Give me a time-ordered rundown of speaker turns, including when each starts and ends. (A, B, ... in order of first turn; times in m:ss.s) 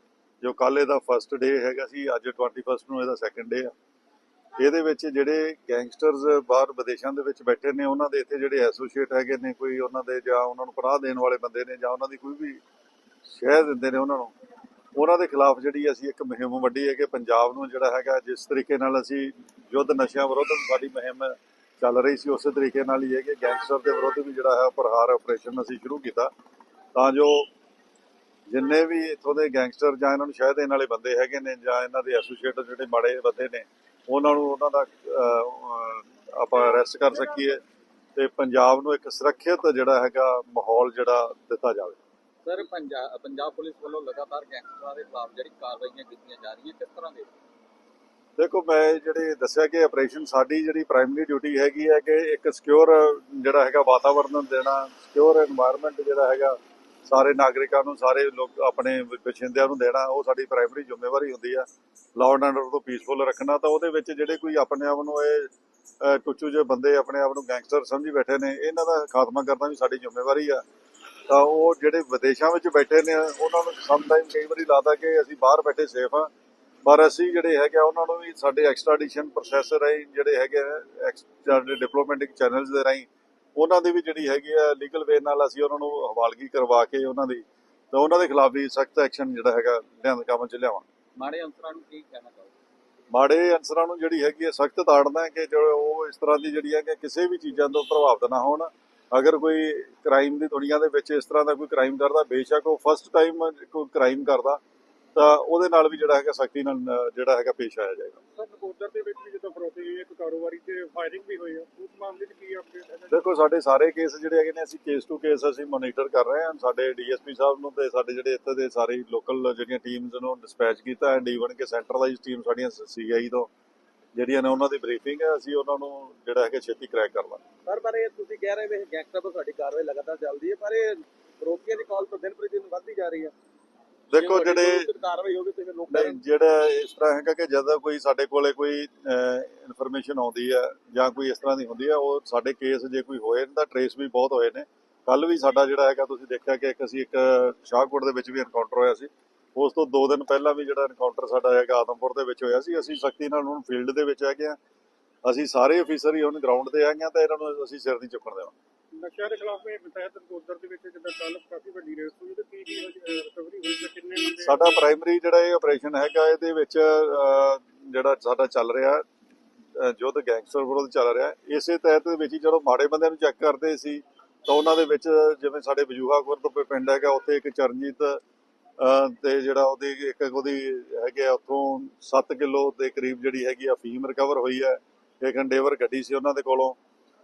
0:00.4-0:03.7 A
0:04.6-0:12.6 A
0:13.2-0:14.3 A
0:14.9-0:26.3 A
0:27.0-0:27.5 A
0:28.5-0:37.6 A
0:38.2-0:42.0 A
0:42.4-0:47.3 B
0:48.4-1:10.6 A
1:11.3-1:16.3 A
1:16.8-1:30.9 A
1:31.2-1:32.5 B
1:33.1-1:44.6 A
1:45.1-1:48.2 A
1:48.3-1:53.3 C
1:53.1-2:03.5 A
2:04.2-2:07.4 A
2:07.7-2:13.3 B
2:14.1-2:14.9 A
2:14.1-2:16.2 B
2:15.9-2:34.6 A
2:35.2-2:38.5 A
2:38.9-2:44.8 C
2:44.4-2:49.0 A
2:49.8-2:58.2 A
2:58.8-3:06.8 A